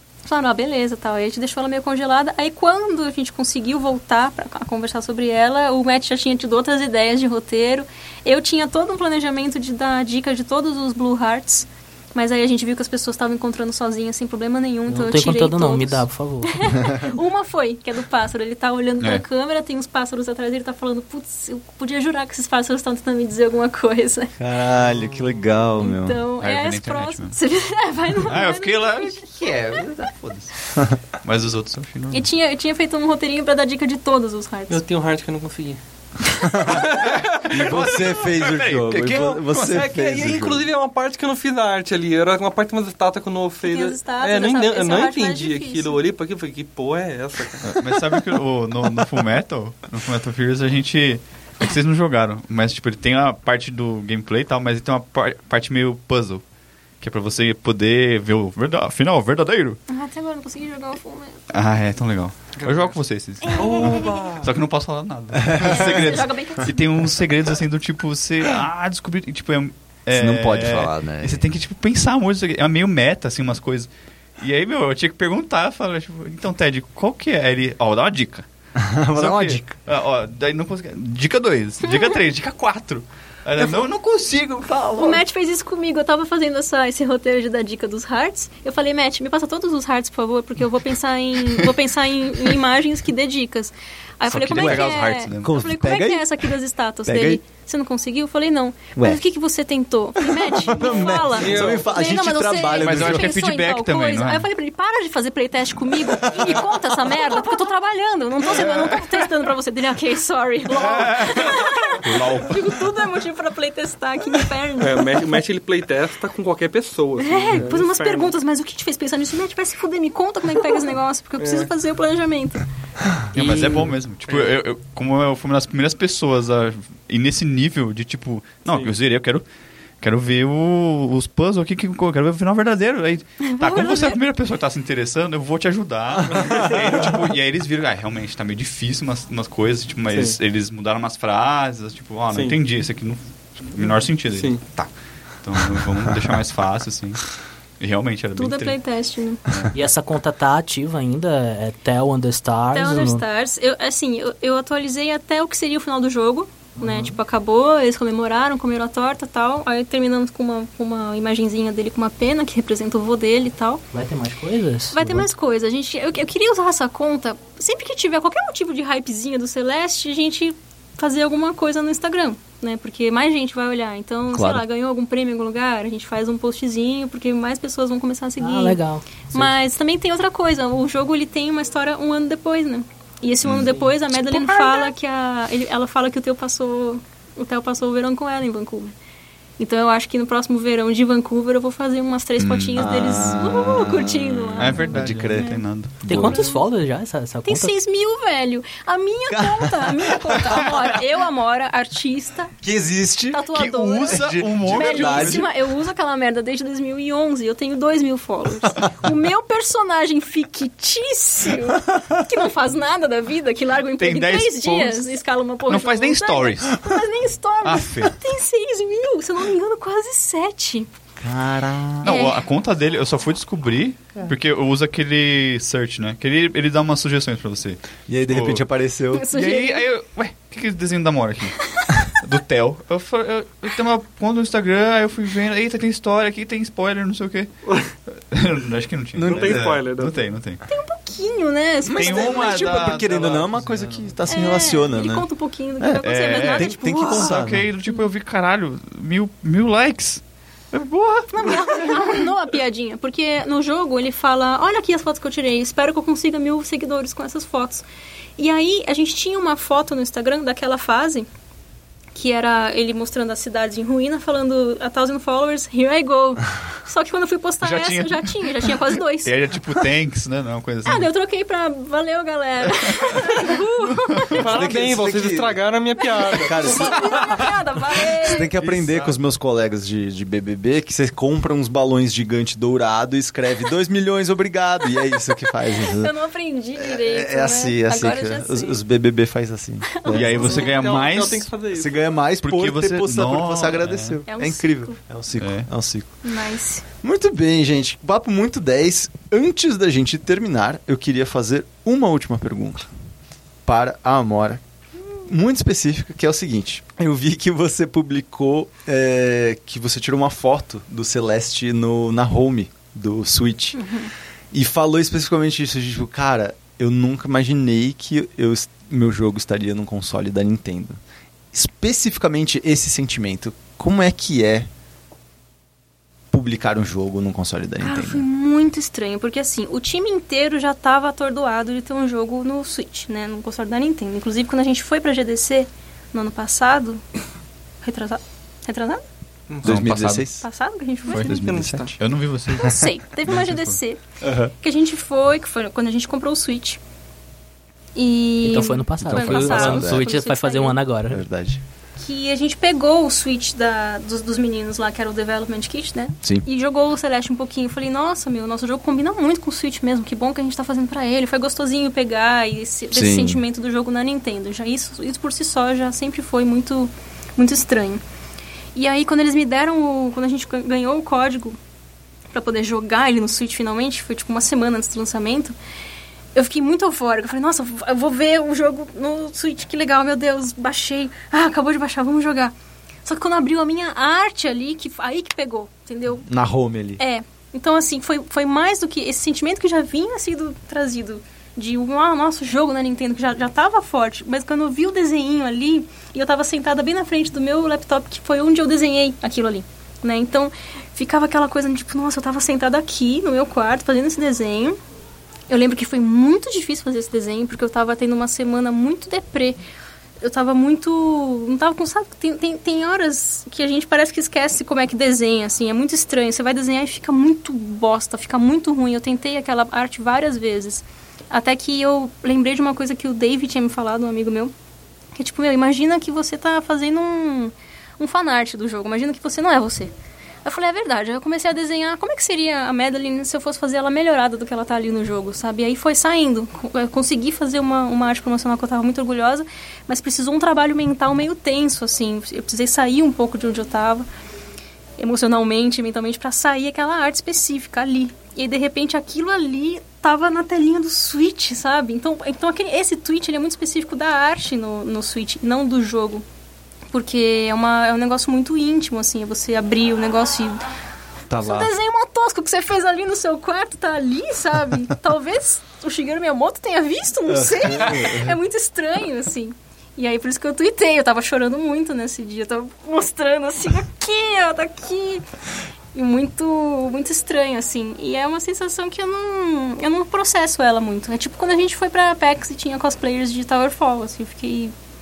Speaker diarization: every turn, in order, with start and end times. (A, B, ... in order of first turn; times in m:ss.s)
0:00.2-0:24.3 A
0:14.9-0:16.8 B
0:24.4-0:26.2 C
0:25.8-0:30.1 A
0:26.4-0:27.4 D
0:28.2-0:30.5 D
0:31.2-0:32.3 D
0:32.1-0:34.8 A
0:34.7-0:37.9 E
0:36.4-0:36.9 C
0:36.9-0:39.9 D
0:37.5-0:40.7 C
0:39.1-0:47.8 E
0:43.6-0:46.0 A
0:47.6-0:56.4 D
0:57.0-0:59.8 D
0:59.9-1:01.4 A
1:01.5-1:18.5 D
1:02.6-1:02.9 E
1:03.4-1:04.1 A
1:03.5-1:04.5 E
1:05.4-1:06.2 C
1:05.6-1:06.8 A
1:10.1-1:11.4 C
1:18.8-1:19.7 C
1:19.2-1:25.2 D
1:21.9-1:22.2 A
1:25.0-1:55.3 A
1:34.2-1:35.6 D
1:34.6-1:36.3 C
1:37.1-1:37.4 C
1:39.0-1:39.2 C
1:40.2-1:43.3 C
1:41.4-1:41.8 E
1:42.7-1:44.5 D
1:48.5-1:49.1 D
1:50.7-1:52.8 D
1:54.8-1:58.3 E
1:57.2-2:02.6 A
2:01.4-2:01.7 E
2:03.3-2:04.0 B
2:03.3-2:09.5 D
2:04.3-2:04.6 E
2:08.7-2:08.9 E
2:10.0-2:24.9 D
2:13.4-2:14.2 A
2:16.3-2:17.2 E
2:20.1-2:20.4 E
2:22.3-2:22.6 E
2:24.3-2:24.6 E
2:25.4-2:28.8 D
2:28.4-2:29.4 A
2:29.7-2:33.2 B
2:32.7-2:43.8 A
2:36.8-2:37.2 B
2:43.9-2:45.3 B
2:44.9-3:08.9 A
2:54.3-2:54.6 C
2:58.4-2:59.5 B
3:04.1-3:04.9 E
3:09.6-3:15.6 A
3:12.4-3:13.4 D
3:12.8-3:16.4 C
3:14.6-3:16.0 D
3:16.1-3:17.8 B
3:16.1-3:16.6 A
3:17.4-3:22.5 A
3:19.3-3:20.1 C
3:22.6-3:23.5 C
3:23.3-3:40.9 A
3:23.5-3:25.5 D
3:24.0-3:25.5 C
3:34.0-3:35.0 D
3:35.7-3:36.8 D
3:37.6-3:38.1 D
3:41.2-3:42.2 C
3:42.0-3:48.6 D
3:42.0-3:42.4 A
3:48.1-3:49.2 C
3:49.1-3:49.8 A
3:49.3-3:57.5 D
3:51.6-3:52.0 A
3:58.1-4:00.6 D
3:59.1-3:59.8 C
3:59.2-4:00.2 E
4:00.7-4:02.7 A
4:01.9-4:05.3 C
4:01.9-4:04.2 D
4:04.3-4:07.4 A
4:05.8-4:07.7 C
4:06.0-4:11.9 D
4:11.3-4:17.8 A
4:18.4-4:21.3 A
4:22.2-4:29.3 A
4:27.6-4:31.1 D
4:30.8-4:34.5 A
4:32.7-4:33.4 D
4:34.0-4:34.4 D
4:34.3-4:37.4 E
4:34.4-4:35.6 C
4:36.0-4:38.5 A
4:36.4-4:37.5 C
4:38.2-4:46.1 C
4:38.6-4:39.2 D
4:44.8-4:48.8 A
4:46.8-4:50.6 C
4:49.9-4:50.8 A
4:50.1-4:51.5 D
4:50.2-4:52.1 E
4:51.7-4:56.1 C
4:52.4-4:54.2 D
4:54.3-4:55.0 A
4:55.4-4:55.7 D
4:56.2-4:56.8 A
4:57.0-5:02.9 C
5:03.7-5:04.6 C
5:05.1-5:13.8 C
5:13.8-5:14.1 A
5:14.5-5:21.0 C
5:21.5-5:24.7 C
5:26.3-5:28.2 C
5:27.8-5:37.0 A
5:37.8-5:39.0 A
5:39.5-5:39.9 E
5:39.6-5:40.4 D
5:39.6-5:40.4 C
5:40.4-5:41.4 A
5:41.1-5:43.8 D
5:41.1-5:42.0 E
5:41.5-5:41.9 C
5:42.5-5:44.0 A
5:44.2-5:44.5 C
5:44.6-5:46.8 A
5:48.0-5:50.8 A
5:48.4-5:51.2 B
5:49.1-5:50.0 C
5:49.2-5:49.6 D
5:51.1-5:51.6 C
5:52.0-6:08.0 A
6:02.9-6:03.4 C
6:08.8-6:11.6 A
6:12.3-6:15.6 A
6:16.4-6:22.5 A
6:23.1-6:26.3 A
6:26.2-6:27.0 C
6:27.0-6:44.8 A
6:45.5-6:49.6 A
6:50.2-7:04.5 A
7:05.2-7:09.9 A
7:10.4-7:24.0 A
7:25.0-7:36.2 A
7:36.9-7:40.6 A
7:41.3-7:41.7 C
7:41.4-7:55.2 A
7:47.3-7:48.4 C
7:55.9-8:04.7 A